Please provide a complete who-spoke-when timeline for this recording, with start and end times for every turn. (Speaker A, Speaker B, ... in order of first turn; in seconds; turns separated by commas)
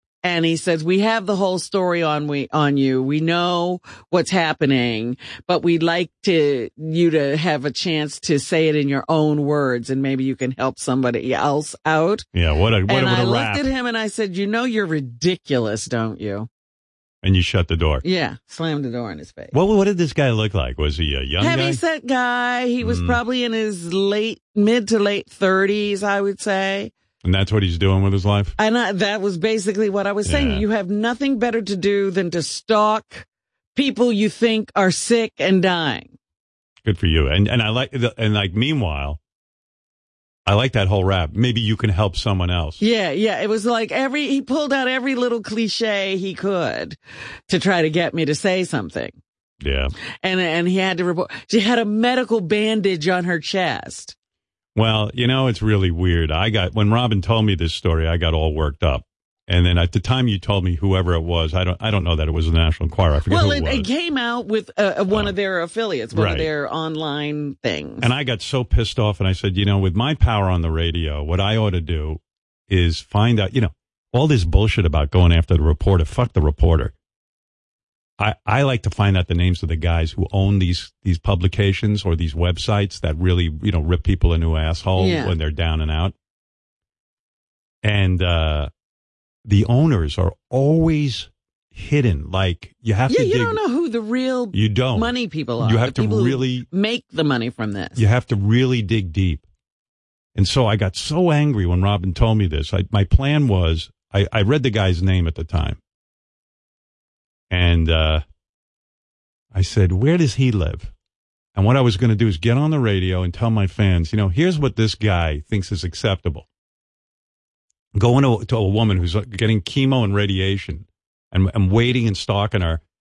Speaker A: 0.2-12.2, Speaker B: 12.3-13.7, Speaker A: 12.9-16.5, Speaker B: 17.2-18.0, Speaker A: 18.0-19.5, Speaker B: 19.5-21.8, Speaker A: 21.4-26.9, Speaker B: 22.8-23.2, Speaker B: 27.2-28.5, Speaker A: 28.6-36.1, Speaker B: 30.2-30.6, Speaker B: 36.9-39.2, Speaker B: 40.5-42.8, Speaker A: 42.8-47.0, Speaker A: 47.5-49.2, Speaker B: 49.6-49.9, Speaker A: 50.2-54.1, Speaker B: 54.7-63.9, Speaker A: 63.3-68.1, Speaker B: 66.1-66.5, Speaker B: 68.0-76.9, Speaker B: 78.2-86.1, Speaker A: 85.0-85.3, Speaker B: 87.8-88.7, Speaker B: 89.4-93.6, Speaker A: 93.1-98.0, Speaker B: 94.5-96.7, Speaker B: 98.0-99.4, Speaker B: 100.3-105.8, Speaker B: 107.5-108.2, Speaker B: 109.5-110.9, Speaker B: 111.5-116.5, Speaker B: 117.9-122.8